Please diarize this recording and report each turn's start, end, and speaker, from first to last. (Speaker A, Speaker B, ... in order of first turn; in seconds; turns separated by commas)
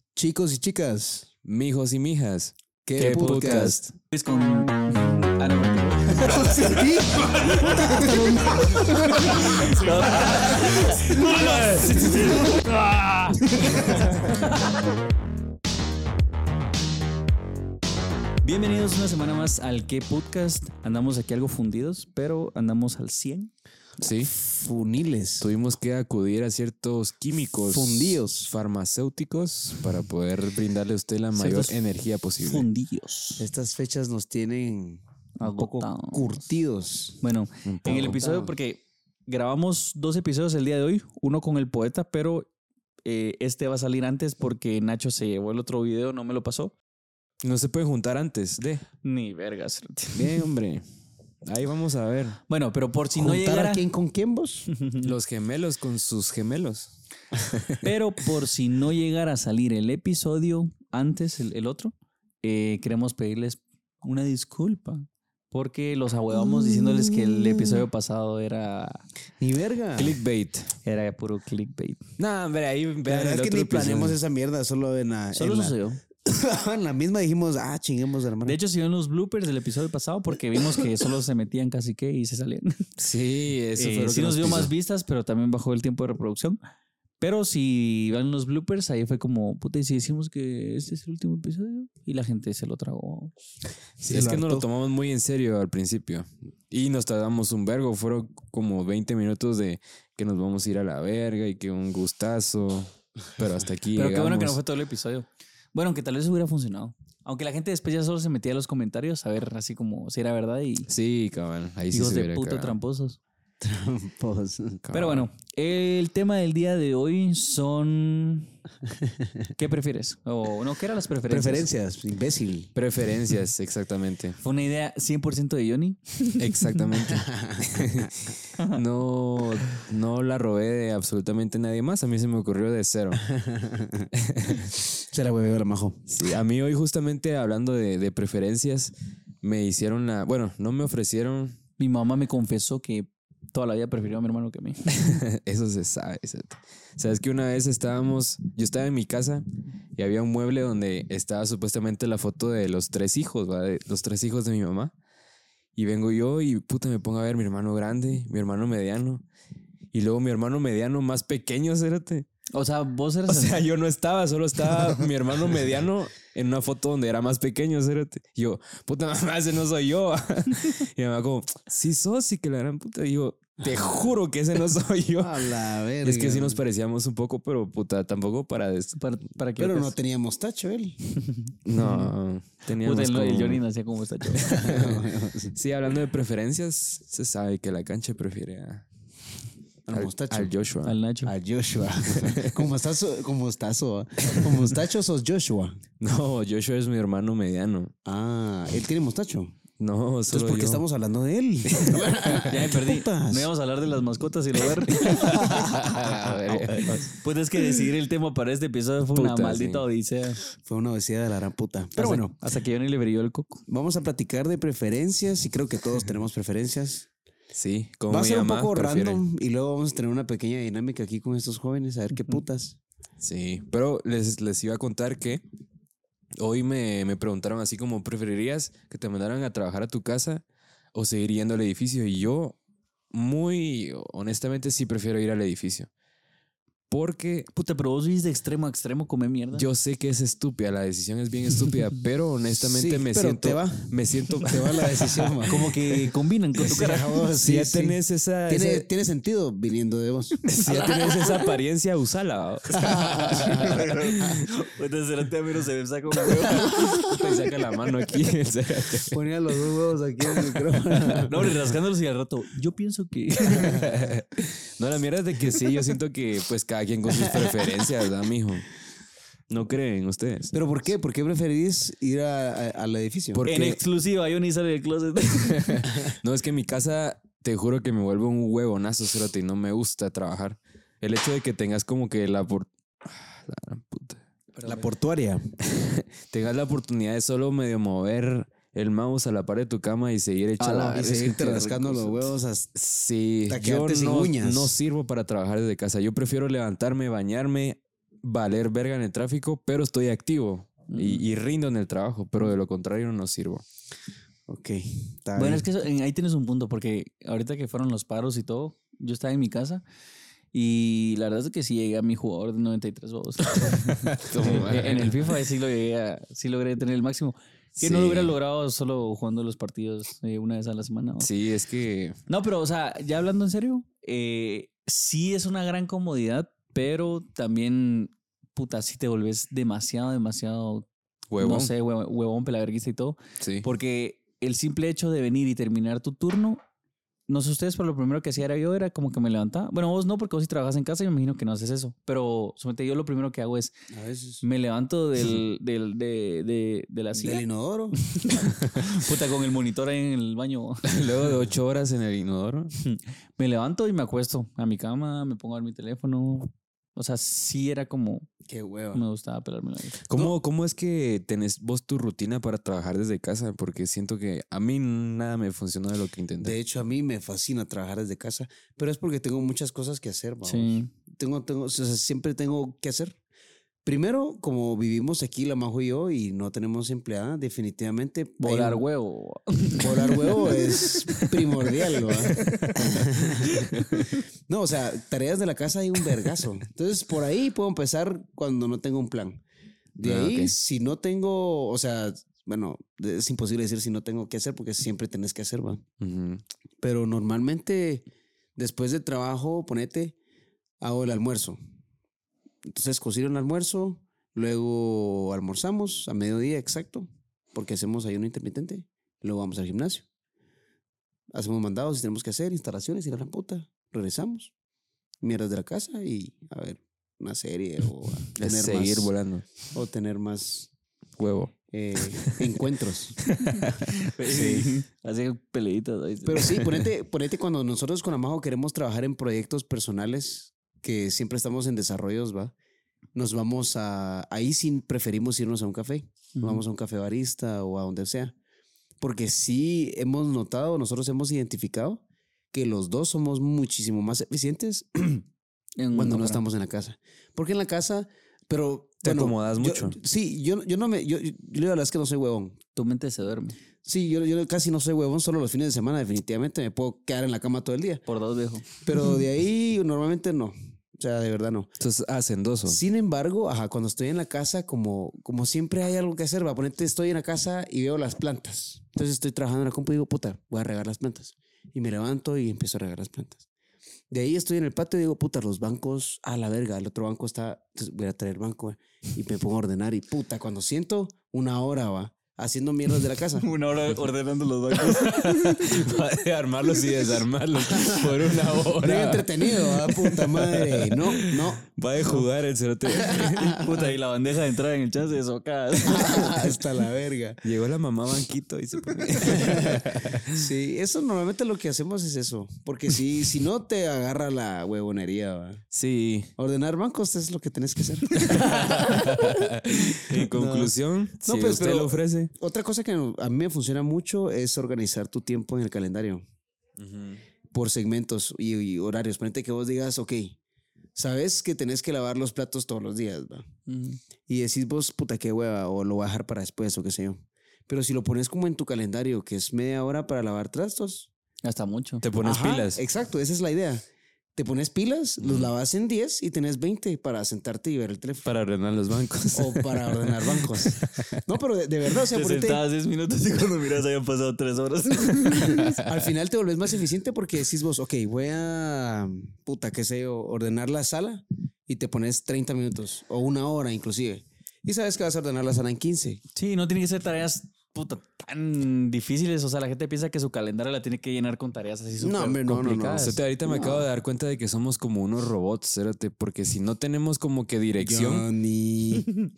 Speaker A: 0.2-1.3, Speaker B: 1.4-3.8, Speaker A: 2.9-3.8, Speaker C: 3.0-14.1, Speaker A: 6.2-11.3, Speaker B: 10.2-12.6, Speaker A: 13.7-14.1, Speaker C: 18.4-23.5, Speaker B: 24.0-24.3, Speaker A: 24.2-25.5, Speaker B: 25.4-32.7, Speaker A: 27.7-28.5, Speaker C: 31.4-31.8, Speaker C: 32.4-33.5, Speaker A: 33.4-37.2, Speaker C: 35.4-36.4, Speaker C: 37.2-42.5, Speaker B: 37.7-38.2, Speaker A: 37.9-38.5, Speaker C: 43.0-46.8, Speaker B: 47.4-48.8, Speaker C: 49.0-50.5, Speaker B: 50.1-50.8, Speaker B: 51.5-52.4, Speaker C: 52.5-53.9, Speaker A: 53.1-54.7, Speaker C: 54.7-55.1, Speaker B: 55.0-56.9, Speaker B: 57.5-57.8, Speaker C: 57.8-69.0, Speaker A: 66.4-67.8, Speaker A: 69.4-70.2, Speaker B: 70.0-70.7, Speaker C: 70.8-72.0, Speaker B: 72.2-74.2, Speaker A: 73.0-78.6, Speaker C: 75.3-76.0, Speaker C: 78.4-82.9, Speaker B: 83.0-84.7, Speaker C: 83.8-86.6, Speaker C: 87.2-93.3, Speaker A: 94.0-94.7, Speaker B: 94.0-104.6, Speaker C: 104.0-110.9, Speaker B: 110.9-112.8, Speaker C: 111.9-113.2, Speaker A: 113.6-114.8, Speaker B: 114.9-115.3, Speaker C: 114.9-118.5, Speaker C: 119.6-121.7, Speaker A: 121.3-122.7, Speaker B: 122.8-124.4, Speaker C: 124.4-126.7, Speaker B: 126.4-133.3, Speaker A: 127.0-128.1, Speaker A: 133.3-136.3, Speaker B: 134.1-134.7, Speaker B: 136.1-141.6, Speaker C: 141.8-144.9, Speaker B: 144.9-149.4, Speaker B: 150.0-154.9, Speaker B: 155.8-159.2, Speaker B: 159.9-162.3, Speaker C: 162.5-163.6, Speaker B: 163.3-179.0, Speaker A: 173.6-174.1, Speaker A: 175.2-176.6, Speaker C: 179.0-179.9, Speaker A: 179.6-181.0, Speaker C: 181.3-182.1, Speaker B: 181.7-183.6, Speaker C: 182.7-184.7, Speaker B: 184.4-188.9, Speaker A: 184.4-185.5, Speaker A: 189.9-190.5, Speaker B: 189.9-191.0, Speaker C: 190.8-191.3, Speaker A: 191.2-195.8, Speaker B: 192.1-192.7, Speaker B: 196.0-197.9, Speaker A: 198.1-199.6, Speaker B: 199.8-200.8, Speaker A: 200.3-203.5, Speaker B: 201.7-202.5, Speaker C: 202.4-205.4, Speaker B: 204.9-207.1, Speaker A: 204.9-206.2, Speaker C: 206.2-210.4, Speaker B: 209.2-209.8, Speaker A: 210.6-212.3, Speaker C: 212.0-213.6, Speaker A: 213.7-217.1, Speaker B: 217.5-219.2, Speaker A: 218.1-222.8, Speaker B: 223.2-225.4, Speaker B: 226.4-230.4, Speaker B: 230.9-232.6, Speaker B: 233.1-235.9, Speaker B: 236.9-237.5, Speaker C: 237.5-239.7, Speaker B: 239.5-245.4, Speaker A: 242.5-245.8, Speaker C: 245.4-247.2, Speaker A: 246.6-251.5, Speaker B: 247.4-248.9, Speaker B: 250.5-254.4, Speaker A: 252.7-253.9, Speaker C: 253.3-257.2, Speaker B: 256.5-259.2, Speaker A: 256.6-257.2, Speaker A: 259.1-261.5, Speaker B: 260.6-261.2, Speaker C: 261.2-263.9, Speaker A: 263.5-263.9, Speaker B: 263.6-268.7, Speaker A: 267.3-267.8, Speaker B: 269.5-270.5, Speaker A: 270.5-273.5, Speaker B: 273.3-273.8, Speaker C: 273.4-275.9, Speaker B: 275.6-284.2, Speaker C: 284.5-284.9, Speaker A: 284.6-285.5, Speaker B: 285.6-292.2, Speaker A: 290.6-292.7, Speaker B: 292.8-303.6, Speaker A: 293.5-294.7, Speaker C: 300.9-301.2, Speaker A: 304.5-305.6, Speaker C: 305.4-309.8, Speaker C: 310.5-321.3, Speaker B: 313.7-315.3, Speaker B: 317.8-318.4, Speaker B: 321.2-322.2, Speaker C: 322.3-330.9, Speaker B: 331.3-331.7, Speaker C: 331.4-336.6, Speaker B: 333.4-333.7, Speaker C: 337.3-343.8, Speaker A: 343.9-344.4, Speaker C: 344.4-347.4, Speaker A: 347.1-348.2, Speaker C: 348.1-351.0, Speaker B: 350.8-352.7, Speaker C: 352.8-358.3, Speaker A: 358.5-359.0, Speaker C: 358.9-360.0, Speaker B: 360.1-366.6, Speaker A: 366.4-373.2, Speaker C: 370.4-370.9, Speaker A: 373.9-378.9, Speaker C: 378.4-381.2, Speaker A: 379.8-389.4, Speaker B: 382.2-384.1, Speaker A: 390.0-395.8, Speaker B: 390.0-390.5, Speaker B: 396.0-396.4, Speaker A: 396.8-400.2, Speaker A: 400.8-401.6, Speaker A: 402.6-410.1, Speaker A: 411.3-414.5, Speaker A: 415.2-419.1, Speaker B: 418.4-419.5, Speaker A: 419.7-420.7, Speaker B: 421.2-422.4, Speaker A: 421.7-423.2, Speaker B: 423.3-424.7, Speaker C: 423.9-426.7, Speaker A: 426.2-432.5, Speaker A: 433.1-438.4, Speaker C: 436.4-436.6, Speaker A: 439.0-445.3, Speaker C: 445.8-446.4, Speaker A: 445.9-452.6, Speaker B: 449.0-450.0, Speaker C: 452.8-453.6, Speaker A: 453.8-458.0, Speaker C: 458.1-458.7, Speaker A: 458.8-461.7, Speaker B: 461.8-462.8, Speaker A: 462.7-473.4, Speaker A: 474.1-483.5, Speaker C: 483.4-485.8, Speaker B: 484.8-493.6, Speaker A: 487.7-491.7, Speaker A: 492.9-493.8, Speaker C: 493.3-496.5, Speaker A: 495.8-497.4, Speaker B: 497.4-500.5, Speaker A: 499.2-505.6, Speaker B: 505.7-506.3, Speaker A: 506.4-510.7, Speaker B: 508.2-512.3, Speaker A: 511.2-516.2, Speaker B: 516.8-517.2, Speaker A: 517.5-520.4, Speaker A: 521.0-523.5, Speaker C: 523.7-524.0, Speaker A: 524.3-531.1, Speaker C: 531.4-532.0, Speaker B: 532.0-532.8, Speaker A: 532.2-538.3, Speaker B: 535.2-535.5, Speaker B: 538.2-541.2, Speaker A: 539.3-542.6, Speaker C: 542.1-545.8, Speaker B: 545.5-545.8, Speaker A: 545.5-556.2, Speaker C: 556.4-563.2, Speaker A: 562.0-563.9, Speaker B: 563.0-568.3, Speaker A: 567.8-569.1